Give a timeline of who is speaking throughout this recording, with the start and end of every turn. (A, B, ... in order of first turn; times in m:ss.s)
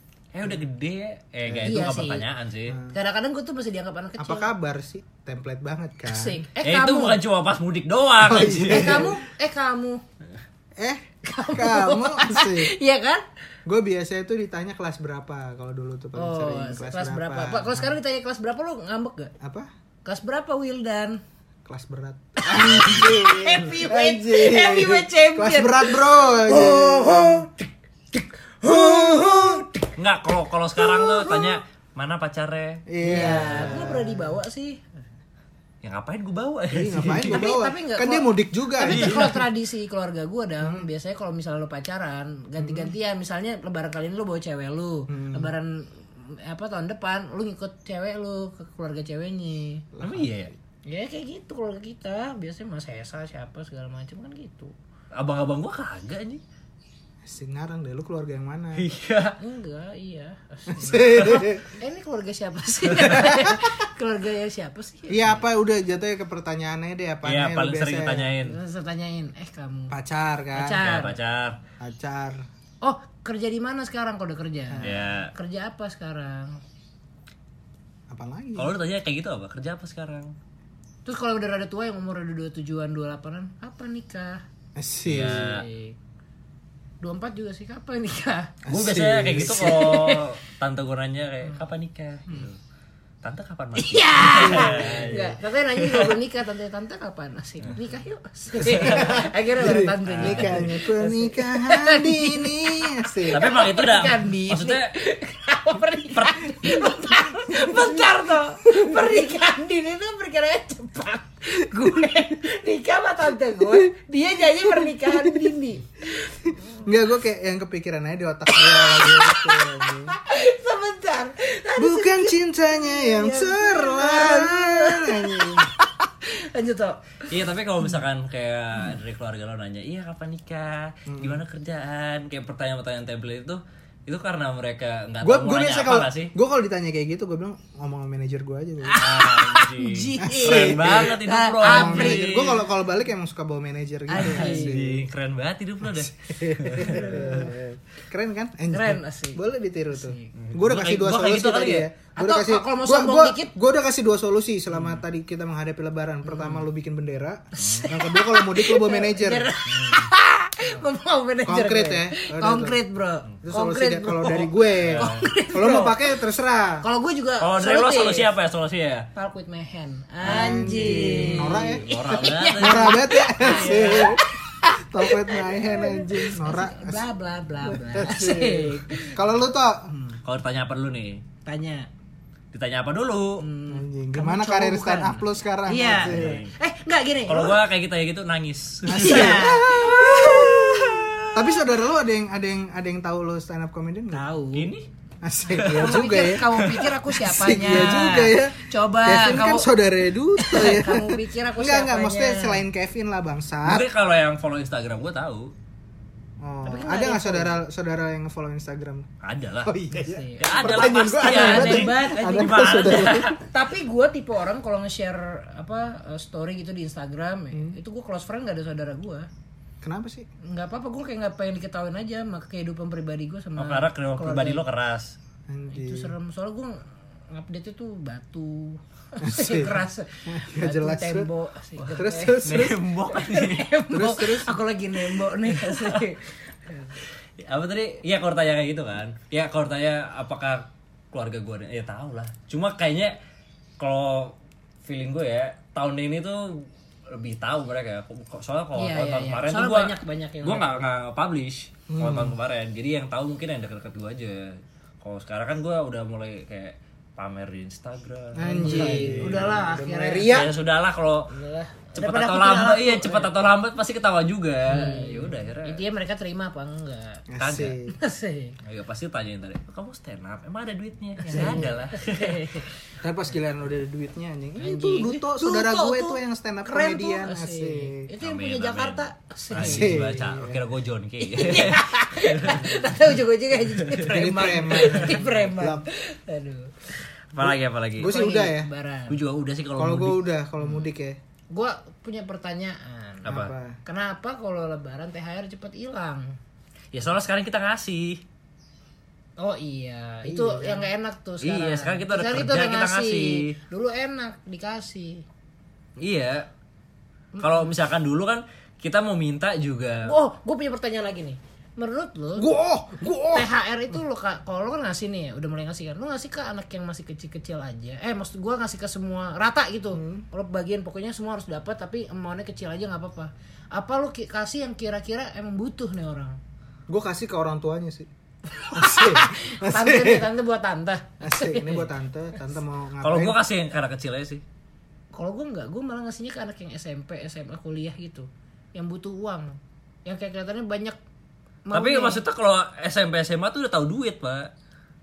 0:00.3-0:02.8 A
0:01.4-0:01.9 B
0:01.6-0:02.2 C
0:02.7-0:03.0 B
0:02.9-0:04.5 C
0:04.2-0:06.4 B
0:06.1-0:07.2 C
0:06.6-0:09.1 A
0:08.2-0:09.2 B
0:08.7-0:10.0 C
0:10.8-0:12.7 B
0:11.2-0:13.2 C
0:13.6-0:17.9 B
0:16.1-0:19.3 C
0:19.4-0:19.7 B
0:20.0-0:21.2 C
0:21.6-0:27.5 B
0:22.4-0:29.9 C
0:28.6-0:29.6 B
0:30.0-0:33.8 A
0:30.8-0:31.5 C
0:32.9-0:34.4 B
0:33.0-0:34.8 C
0:35.8-0:37.4 A
0:36.7-0:39.3 B
0:37.3-0:49.8 C
0:38.8-0:39.3 A
0:40.6-0:40.9 B
0:42.6-0:42.9 B
0:45.1-0:45.5 B
0:49.9-0:50.3 B
0:50.0-0:50.5 A
0:50.9-0:54.7 C
0:55.1-0:56.4 A
0:57.2-0:58.9 B
0:58.8-0:59.4 A
0:59.4-1:05.4 C
1:00.7-1:01.7 B
1:03.0-1:03.7 B
1:05.1-1:08.3 B
1:07.2-1:08.6 A
1:08.4-1:09.9 C
1:09.9-1:10.8 B
1:10.5-1:11.2 C
1:10.8-1:11.6 A
1:11.8-1:12.4 B
1:12.8-1:16.6 C
1:14.7-1:15.1 B
1:14.8-1:15.3 A
1:18.1-1:18.7 B
1:18.6-1:20.3 A
1:21.0-1:24.4 C
1:24.8-1:25.6 B
1:25.0-1:25.6 A
1:25.2-1:26.0 C
1:27.0-1:28.5 C
1:28.6-1:29.9 B
1:28.7-1:32.6 A
1:29.4-1:30.3 C
1:33.2-1:36.2 A
1:33.8-1:56.5 C
1:34.3-1:35.4 B
1:38.6-1:39.2 A
1:38.6-1:43.5 B
1:40.0-1:40.7 A
1:43.3-1:44.9 A
1:46.1-1:46.8 A
1:47.5-1:47.9 B
1:54.5-1:55.5 B
1:56.4-2:00.1 B
1:58.5-2:07.2 C
2:01.8-2:05.7 B
2:07.3-2:16.3 A
2:11.1-2:11.4 B
2:15.2-2:19.0 B
2:18.8-2:22.5 C
2:19.0-2:22.6 A
2:20.2-2:25.0 B
2:24.1-2:24.8 C
2:24.2-2:27.4 A
2:25.9-2:39.5 B
2:26.8-2:27.5 C
2:28.7-2:30.3 C
2:30.4-2:31.9 A
2:32.2-2:33.5 C
2:36.2-2:36.6 C
2:37.6-2:46.1 C
2:37.6-2:37.9 A
2:39.7-2:40.1 A
2:41.4-2:42.8 B
2:43.4-2:46.8 B
2:44.8-2:45.3 A
2:46.8-2:48.3 C
2:47.4-2:49.1 A
2:49.1-2:59.2 C
2:50.2-2:51.8 B
2:50.3-2:54.1 A
2:52.5-2:54.2 B
2:54.8-2:57.1 B
2:57.6-3:00.2 B
3:00.2-3:01.2 A
3:01.4-3:01.9 C
3:02.5-3:03.4 A
3:03.4-3:07.6 C
3:03.7-3:06.4 B
3:05.8-3:06.5 A
3:07.3-3:11.2 A
3:08.9-3:14.2 B
3:08.9-3:11.2 C
3:14.1-3:14.7 C
3:14.5-3:14.8 A
3:15.2-3:23.9 B
3:15.5-3:16.9 A
3:15.6-3:19.7 C
3:20.4-3:22.6 C
3:23.6-3:25.5 A
3:26.4-3:29.1 B
3:26.6-3:27.6 C
3:29.2-3:29.7 A
3:29.6-3:33.4 B
3:30.0-3:39.3 C
3:30.4-3:33.4 A
3:39.8-3:40.3 B
3:40.4-3:44.6 C
3:43.6-3:45.2 A
3:45.5-3:46.1 B
3:45.7-3:46.8 C
3:47.3-3:57.0 C
3:49.2-3:51.3 B
3:51.9-3:52.8 B
3:52.4-3:53.7 A
3:53.9-3:54.5 B
3:55.4-3:56.0 A
3:57.4-4:03.2 A
4:03.8-4:19.5 A
4:08.8-4:10.8 C
4:11.9-4:12.4 B
4:18.4-4:20.5 B
4:18.4-4:20.5 C
4:20.3-4:21.3 A
4:21.3-4:23.3 C
4:21.9-4:25.8 A
4:24.7-4:27.2 C
4:27.3-4:27.9 B
4:27.4-4:27.8 A
4:27.9-4:28.6 C
4:28.6-4:32.5 A
4:31.2-4:32.7 C
4:31.3-4:31.7 B
4:33.0-4:38.1 B
4:34.6-4:40.1 C
4:38.2-4:42.8 A
4:39.6-4:40.6 B
4:41.2-4:47.0 C
4:43.7-4:44.1 A
4:44.1-4:45.8 B
4:44.7-4:45.2 A
4:47.3-4:48.2 A
4:47.4-4:48.7 B
4:48.0-4:49.2 C
4:49.1-4:50.2 A
4:49.8-4:51.2 B
4:51.5-4:53.3 C
4:53.2-4:53.5 A
4:53.3-4:53.8 B
4:53.8-4:56.3 C
4:56.9-4:58.2 A
4:59.4-5:05.2 C
5:00.2-5:00.9 B
5:01.4-5:03.5 A
5:06.0-5:06.5 A
5:07.3-5:07.7 C
5:07.4-5:10.1 A
5:10.0-5:12.5 C
5:12.4-5:13.5 B
5:13.2-5:26.4 C
5:19.9-5:20.2 B
5:26.9-5:28.1 B
5:28.5-5:31.9 C
5:28.7-5:30.3 B
5:31.2-5:33.4 B
5:33.0-5:34.4 A
5:35.1-5:41.0 C
5:41.6-5:42.2 C
5:41.7-5:44.5 A